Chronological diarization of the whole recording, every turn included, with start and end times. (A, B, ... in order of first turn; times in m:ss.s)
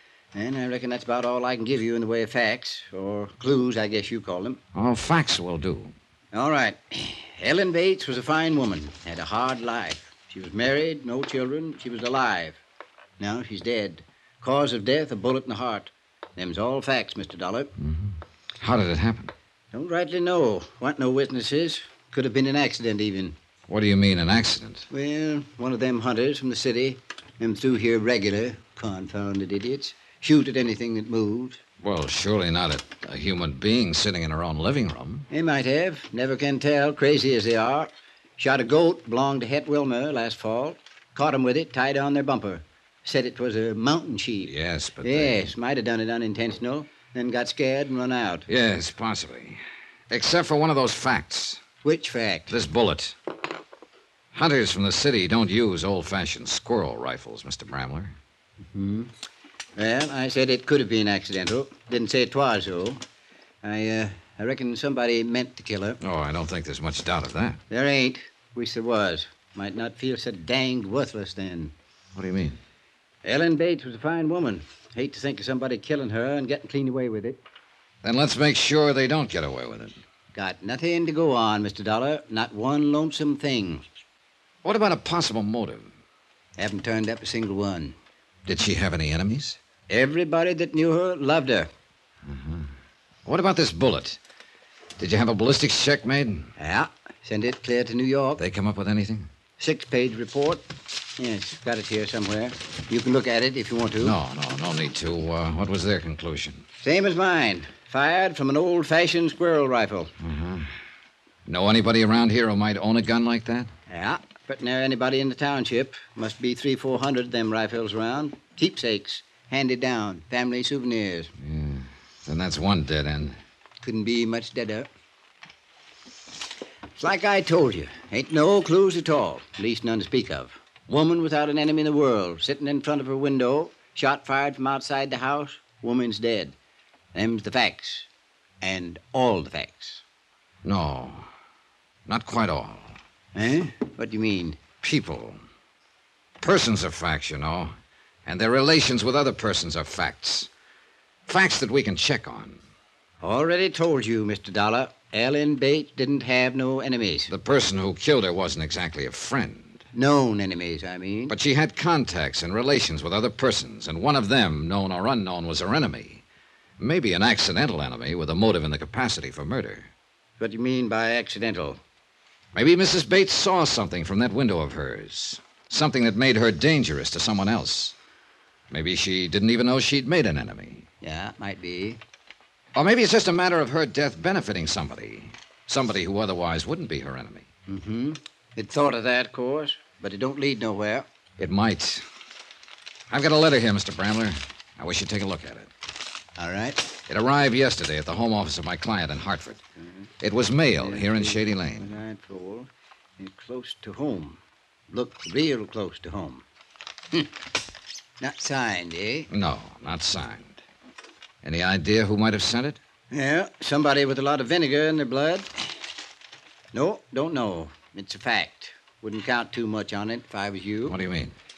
0:00.3-0:04.6 A
0:04.7-0:05.9 B
0:06.3-0:12.6 A
0:13.2-0:17.7 A
0:17.8-0:19.3 B
0:19.7-0:23.4 A
0:23.7-0:24.9 B
0:24.9-0:31.6 A
0:31.8-0:35.3 B
0:35.3-0:48.5 A
0:44.4-0:45.5 B
0:48.5-0:51.6 B
0:51.8-0:52.5 A
0:52.5-0:53.2 B
0:54.3-0:58.1 B
0:58.7-0:59.1 A
0:59.8-1:03.0 A
1:03.6-1:06.0 A
1:06.0-1:07.6 B
1:07.7-1:11.7 A
1:12.1-1:12.6 B
1:13.2-1:17.4 A
1:18.0-1:20.0 B
1:20.3-1:23.8 A
1:24.6-1:25.9 B
1:26.6-1:28.0 A
1:28.4-1:29.6 B
1:29.9-1:31.7 A
1:32.3-1:32.7 B
1:33.2-1:34.2 B
1:35.0-1:36.5 B
1:36.6-1:38.4 A
1:38.4-1:39.3 B
1:39.6-1:40.6 A
1:41.2-1:44.2 A
1:44.0-1:46.6 B
1:46.8-1:50.1 A
1:50.2-1:50.7 B
1:51.4-1:53.7 B
1:53.9-2:01.3 A
2:01.4-2:03.4 B
2:03.8-2:04.9 A
2:07.0-2:16.6 A
2:17.1-2:18.1 A
2:18.6-2:20.0 A
2:20.6-2:21.3 B
2:22.0-2:23.0 B
2:23.3-2:24.6 A
2:24.8-2:25.4 B
2:26.4-2:27.7 B
2:28.2-2:30.5 B
2:31.3-2:32.6 B
2:33.2-2:37.3 A
2:37.3-2:39.8 B
2:39.9-2:41.3 A
2:41.3-2:46.2 B
2:46.8-2:49.9 B
2:50.4-2:51.8 A
2:52.5-2:58.0 B
2:58.7-3:00.8 B
3:01.0-3:02.0 A
3:02.7-3:07.4 B
3:07.7-3:11.0 A
3:11.4-3:12.0 B
3:13.1-3:15.7 B
3:16.4-3:16.8 A
3:17.1-3:19.6 B
3:20.2-3:22.0 B
3:20.8-3:26.4 A
3:28.2-3:29.3 A
3:29.3-3:30.6 B
3:31.4-3:32.8 B
3:33.1-3:35.5 A
3:36.7-3:41.0 A
3:40.9-3:41.3 B